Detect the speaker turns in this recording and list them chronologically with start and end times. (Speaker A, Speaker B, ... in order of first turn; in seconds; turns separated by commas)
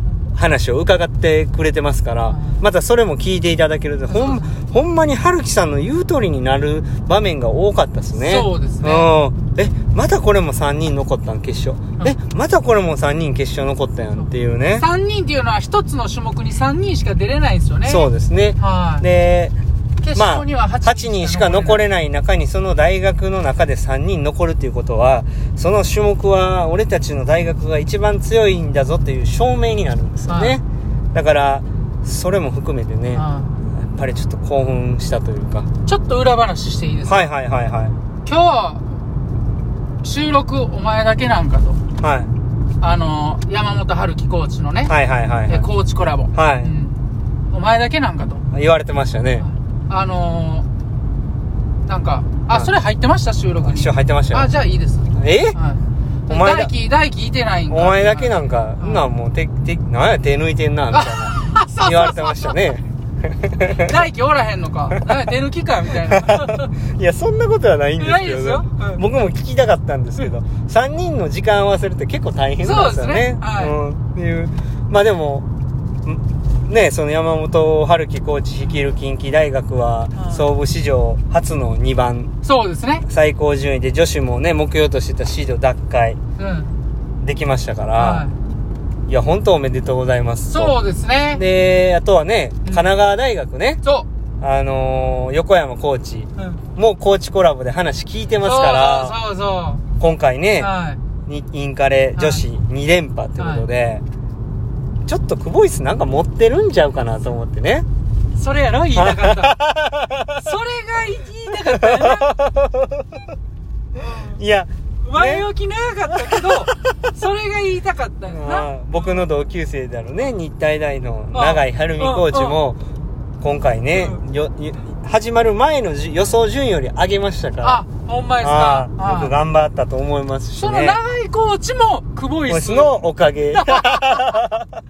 Speaker A: 0.3-14.9, Speaker B: 2.3-2.6, Speaker B: 4.1-4.6, Speaker B: 8.2-9.1, Speaker B: 14.2-19.1, Speaker A: 17.9-19.6, Speaker B: 20.0-21.9, Speaker A: 20.1-30.6, Speaker B: 30.3-30.6, Speaker A: 31.1-35.7, Speaker B: 33.1-33.6, Speaker B: 35.9-37.3, Speaker A: 37.1-38.0, Speaker B: 38.2-38.9, Speaker B: 40.0-41.8, Speaker A: 42.0-42.3, Speaker B: 42.8-45.0, Speaker A: 44.9-45.7, Speaker B: 45.5-48.5, Speaker A: 46.4-46.7, Speaker A: 48.5-49.5, Speaker B: 49.4-50.7, Speaker B: 51.9-59.1, Speaker A: 53.6-54.5, Speaker A: 55.1-55.6, Speaker A: 56.3-56.7, Speaker A: 57.7-63.9, Speaker B: 60.9-62.6, Speaker B: 63.7-66.7, Speaker A: 66.1-75.5, Speaker B: 68.0-69.0, Speaker B: 72.6-73.8, Speaker A: 76.0-82.3, Speaker B: 80.2-80.5, Speaker B: 82.4-83.1, Speaker A: 83.1-86.2, Speaker B: 86.4-86.8, Speaker A: 87.2-88.3, Speaker B: 88.0-88.4, Speaker A: 89.1-90.7, Speaker B: 90.5-91.4, Speaker A: 91.3-93.8, Speaker A: 94.4-99.2, Speaker B: 96.4-96.6, Speaker B: 98.4-99.8, Speaker A: 100.0-100.7, Speaker B: 100.6-101.0, Speaker A: 101.3-104.0, Speaker B: 102.2-102.5, Speaker B: 103.4-103.7, Speaker A: 105.1-107.9, Speaker B: 108.3-109.6, Speaker A: 109.0-110.5, Speaker B: 110.4-112.3, Speaker A: 111.7-113.1, Speaker B: 114.0-114.3, Speaker A: 114.1-115.5, Speaker B: 115.0-119.3, Speaker A: 116.2-116.6, Speaker A: 118.3-122.8, Speaker B: 121.3-122.6, Speaker A: 123.4-127.8, Speaker B: 123.9-124.2, Speaker B: 127.6-129.3, Speaker A: 128.4-131.0, Speaker B: 130.6-132.9, Speaker A: 132.5-134.8, Speaker B: 133.5-134.4